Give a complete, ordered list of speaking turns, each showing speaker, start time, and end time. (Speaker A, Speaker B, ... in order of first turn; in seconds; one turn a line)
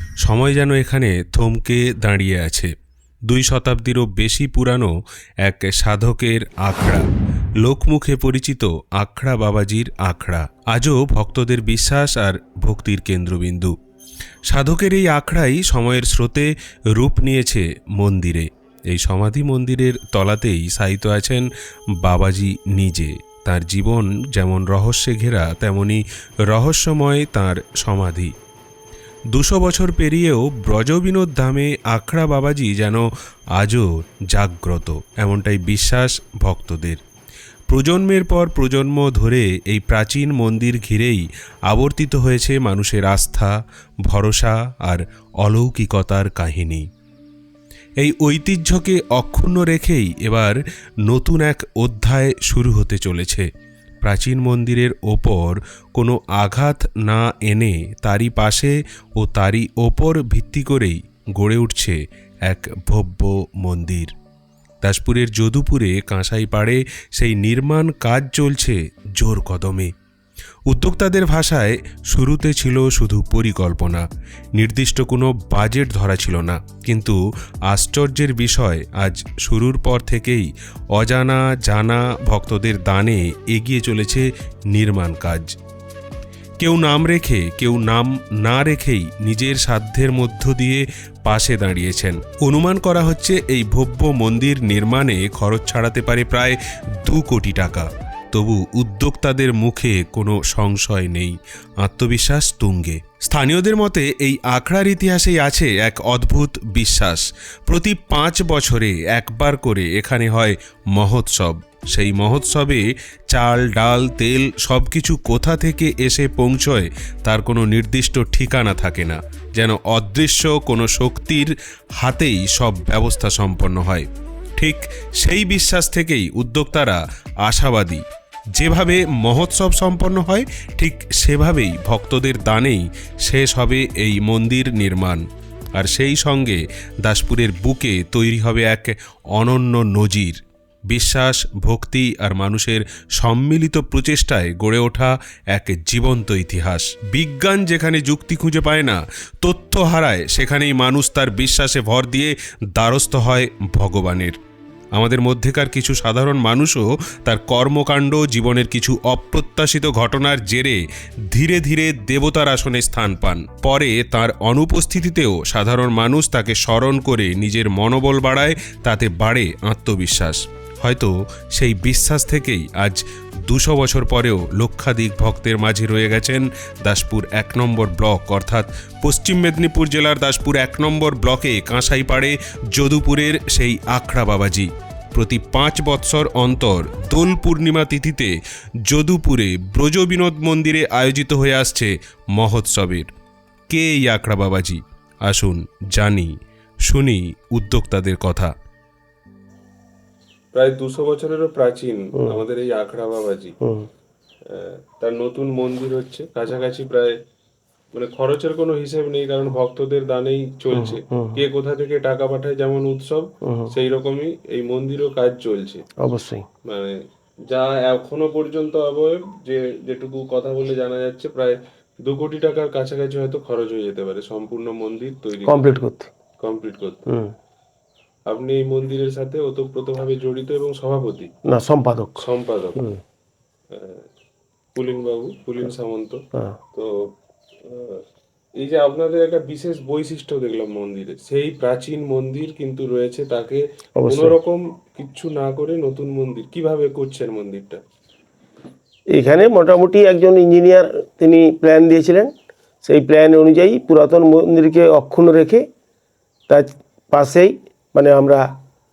Speaker A: 0.2-2.7
Speaker A: 3.3-7.1
Speaker A: 7.6-13.8
Speaker A: 14.5-21.5
Speaker A: 22.0-28.3
Speaker A: 29.3-37.0
Speaker A: 37.7-43.5
Speaker A: 44.1-46.9
Speaker A: 48.0-53.5
Speaker A: 54.0-64.1
Speaker A: 64.8-69.9
Speaker A: 70.7-74.0
Speaker A: 74.6-77.2
Speaker A: 77.7-85.5
Speaker A: 86.6-135.2
Speaker A: 135.8-154.4
Speaker A: 154.9-193.1
Speaker A: 193.7-196.3
Speaker A: 196.9-198.5
Speaker B: 200.5-203.6
Speaker C: 203.6-203.9
Speaker B: 204.5-207.2
Speaker B: 207.9-215.8
Speaker C: 210.7-211.4
Speaker C: 213.4-213.7
Speaker C: 216.0-216.5
Speaker B: 216.7-225.8
Speaker C: 225.4-226.1
Speaker B: 226.4-227.1
Speaker C: 227.1-227.3
Speaker B: 228.3-231.3
Speaker C: 231.4-232.3
Speaker B: 232.2-232.9
Speaker B: 233.7-234.1
Speaker B: 234.8-236.2
Speaker B: 236.8-237.1
Speaker B: 237.6-238.0
Speaker B: 238.6-247.8
Speaker C: 244.0-244.4
Speaker C: 249.1-252.3
Speaker C: 252.8-255.6
Speaker C: 256.5-258.5